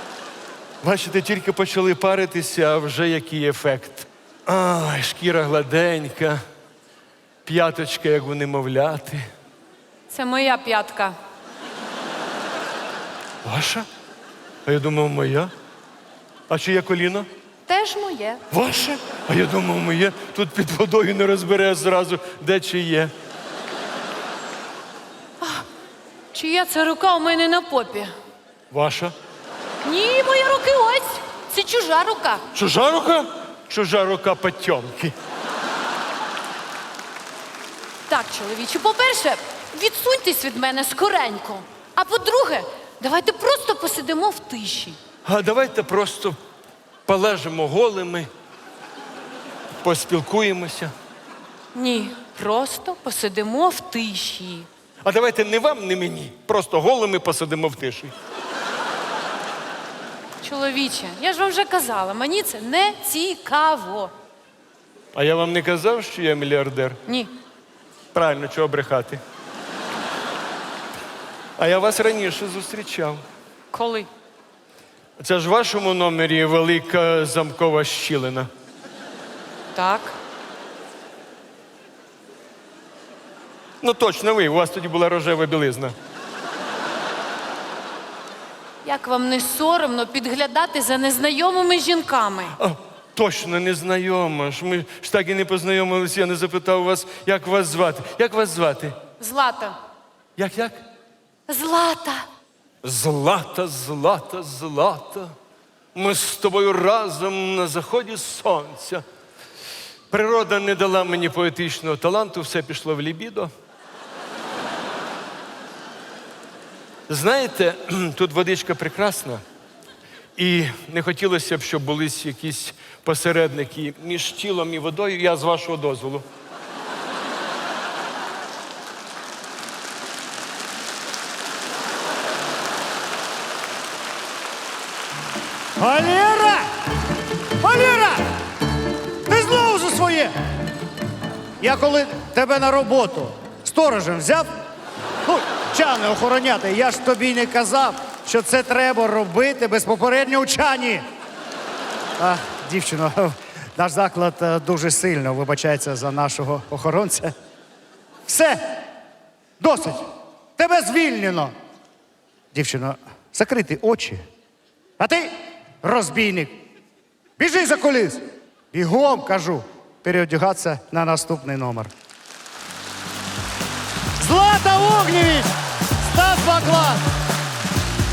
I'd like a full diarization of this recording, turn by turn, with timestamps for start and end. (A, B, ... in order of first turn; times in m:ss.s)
0:00.8-0:06.4 A
0:07.5-0:09.2 A
0:10.1-0:11.2 B
0:13.4-0:13.9 A
0:14.7-0:15.5 A
0:16.5-0:17.3 A
0:17.7-0:18.4 B
0:18.5-0:23.1 A
0:25.4-0:25.7 B
0:26.3-0:28.1 B
0:28.7-0:29.1 A
0:29.8-0:32.4 B
0:32.5-0:35.2 A
0:38.1-0:45.0 B
0:45.2-0:46.4 A
0:47.1-0:48.3 A
0:49.8-0:50.9 A
0:51.7-0:54.7 B
0:55.0-0:58.1 A
1:00.4-1:04.1 B
1:05.1-1:07.0 A
1:07.1-1:07.3 B
1:08.1-1:09.2 A
1:11.6-1:13.2 A
1:13.7-1:14.1 B
1:15.2-1:18.5 A
1:19.7-1:20.2 B
1:23.8-1:26.0 A
1:28.8-1:32.6 B
1:32.6-1:39.0 A
1:39.2-1:39.8 B
1:40.4-1:40.8 A
1:41.5-1:42.3 B
1:42.8-1:45.3 A
1:45.9-1:49.0 A
1:50.1-1:53.5 A
1:57.1-1:59.4 A
2:00.4-2:06.2 A
2:15.8-2:16.6 C
2:17.6-2:18.2 C
2:19.3-2:20.3 C
2:21.6-2:24.5 C
2:25.3-2:31.0 C
2:32.2-2:37.3 C
2:38.3-2:38.6 C
2:39.6-2:40.0 C
2:40.6-2:41.5 C
2:42.5-2:44.2 C
2:45.0-2:46.6 C
2:47.4-2:51.9 C
2:54.2-2:55.5 C
2:56.0-2:57.0 C